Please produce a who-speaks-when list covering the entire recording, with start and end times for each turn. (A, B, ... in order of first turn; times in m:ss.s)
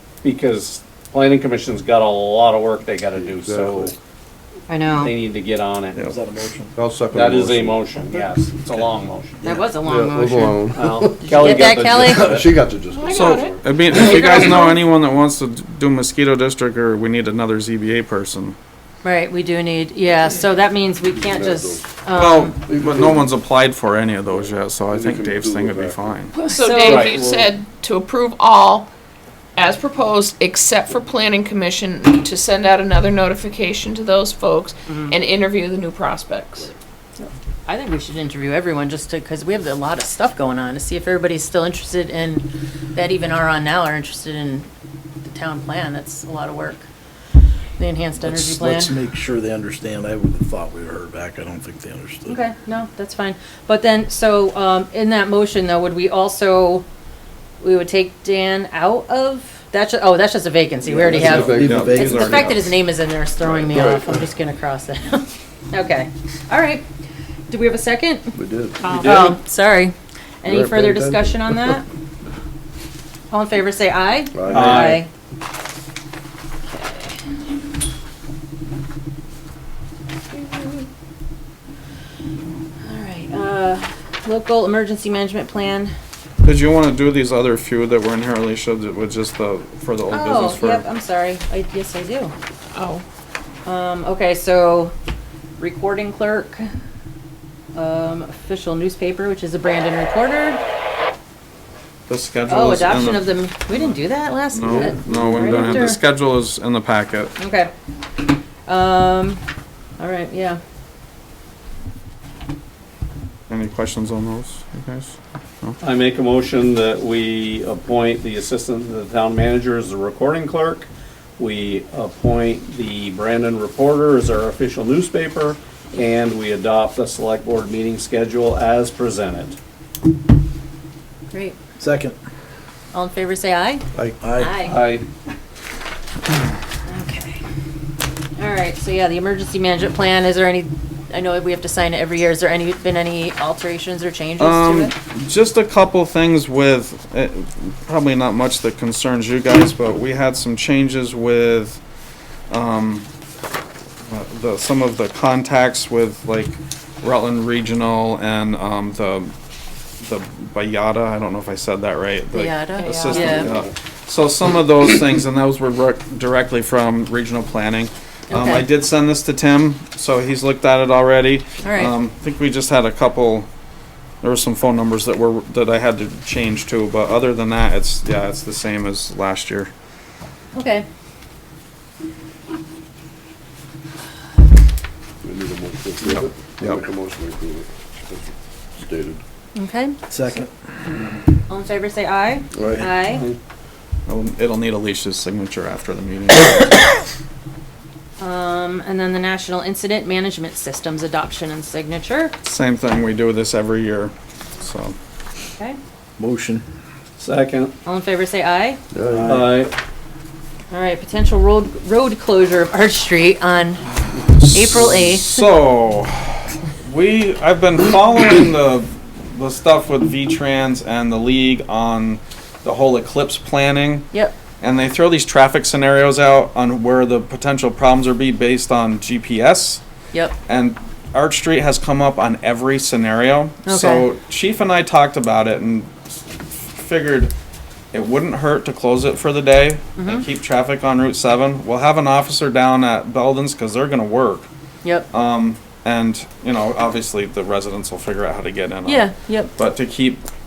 0:00.2-0:03.9 A
0:03.3-0:03.9 B
0:04.7-0:05.1 C
0:05.0-0:06.0 A
0:06.0-0:06.7 D
0:06.8-0:08.3 B
0:07.1-0:09.4 A
0:09.4-0:10.7 C
0:09.8-0:13.6 B
0:10.7-0:12.5 A
0:11.2-0:12.4 C
0:12.9-0:14.7 E
0:13.1-0:18.6 F
0:19.0-0:22.6 C
0:21.0-0:22.0 B
0:22.1-0:26.4 F
0:22.7-0:23.4 B
0:24.3-0:26.1 B
0:26.3-0:28.9 E
0:26.5-0:27.1 C
0:26.8-0:27.5 A
0:29.6-0:36.7 E
0:37.2-0:44.7 C
0:45.2-0:46.8 C
0:47.8-0:49.0 C
0:48.2-0:52.4 D
0:52.3-0:56.8 C
0:57.6-1:06.8 C
1:00.8-1:02.6 B
1:01.1-1:02.4 D
1:01.2-1:02.6 F
1:03.4-1:04.3 B
1:07.5-1:08.3 C
1:08.3-1:09.0 B
1:08.8-1:11.8 C
1:08.8-1:09.4 A
1:08.8-1:09.1 E
1:10.4-1:11.8 B
1:13.3-1:15.1 C
1:14.3-1:15.0 B
1:14.5-1:15.0 A
1:16.6-1:17.2 C
1:20.3-1:20.8 C
1:22.8-1:25.9 C
1:26.4-1:30.8 F
1:30.1-1:32.3 C
1:32.7-1:33.0 E
1:33.6-1:34.9 C
1:35.6-1:36.7 C
1:37.7-1:40.6 C
1:42.1-1:47.3 F
1:42.5-1:46.0 C
1:44.7-1:45.8 B
1:47.4-1:47.7 C
1:48.7-1:49.4 C
1:50.0-1:50.6 C
1:53.5-1:55.8 F
1:55.8-2:09.6 A
2:11.8-2:12.2 D
2:12.9-2:13.8 C
2:14.2-2:14.6 D
2:14.4-2:14.8 C
2:14.6-2:15.0 A
2:16.9-2:17.4 C
2:18.4-2:24.9 C
2:24.4-2:31.8 F
2:32.5-2:33.1 F
2:34.1-2:39.3 F
2:40.0-2:53.5 F
2:42.3-2:43.5 C
2:42.7-2:43.4 E
2:48.3-2:48.7 C
2:51.6-2:51.9 C
2:54.2-2:59.7 F
3:00.5-3:00.8 C
3:05.2-3:09.2 B
3:06.0-3:06.8 F
3:09.6-3:10.0 C
3:10.1-3:10.5 D
3:11.5-3:13.2 C
3:12.6-3:12.9 B
3:14.1-3:17.0 F
3:18.2-3:22.3 C
3:22.4-3:24.9 F
3:26.2-3:26.6 D
3:27.2-3:27.7 A
3:27.8-3:28.8 C
3:28.9-3:29.4 B
3:29.1-3:29.5 D
3:29.2-3:29.7 A
3:30.7-3:35.4 C
3:34.4-3:44.1 F
3:44.6-3:49.8 F
3:50.5-3:57.3 F
3:53.6-3:54.1 C
3:57.9-4:04.5 F
4:00.0-4:00.2 C
4:05.1-4:10.2 F
4:08.8-4:09.5 C